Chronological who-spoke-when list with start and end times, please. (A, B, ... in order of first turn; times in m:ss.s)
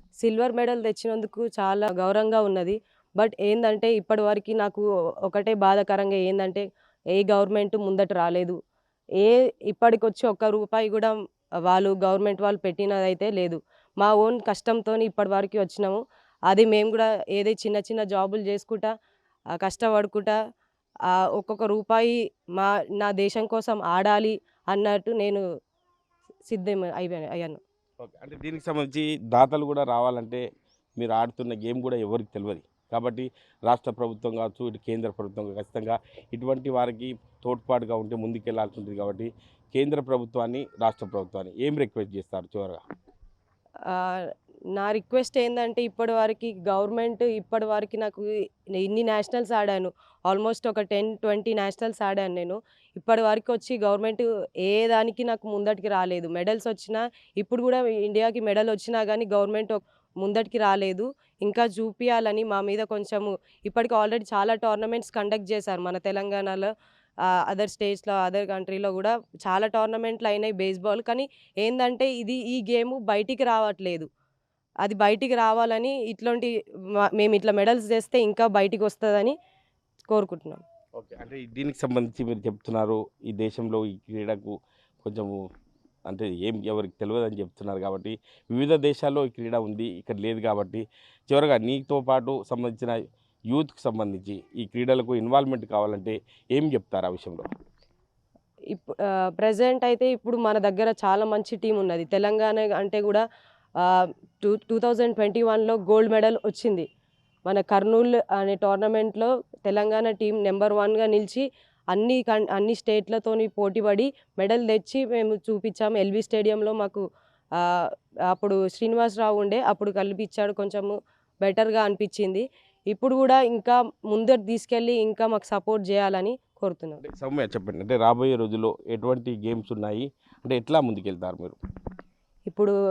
0:00.2-0:06.6 A
0:07.2-0:08.6 A
0:09.2-0:11.1 A
0:11.7-0:18.9 A
0:19.6-0:20.4 A
0:21.2-0:25.4 A
0:26.5-0:27.6 A
0:28.0-0:30.4 B
0:31.0-0:42.8 B
0:43.9-1:06.7 A
1:07.3-1:14.1 A
1:14.8-1:19.4 A
1:20.1-1:20.6 A
1:21.0-1:25.4 B
1:26.1-1:32.9 B
1:33.5-1:37.5 B
1:38.7-1:43.2 A
1:43.8-1:46.9 A
1:47.5-1:57.0 A
1:57.6-2:07.0 A
2:07.0-2:11.6 B
2:12.5-2:12.8 A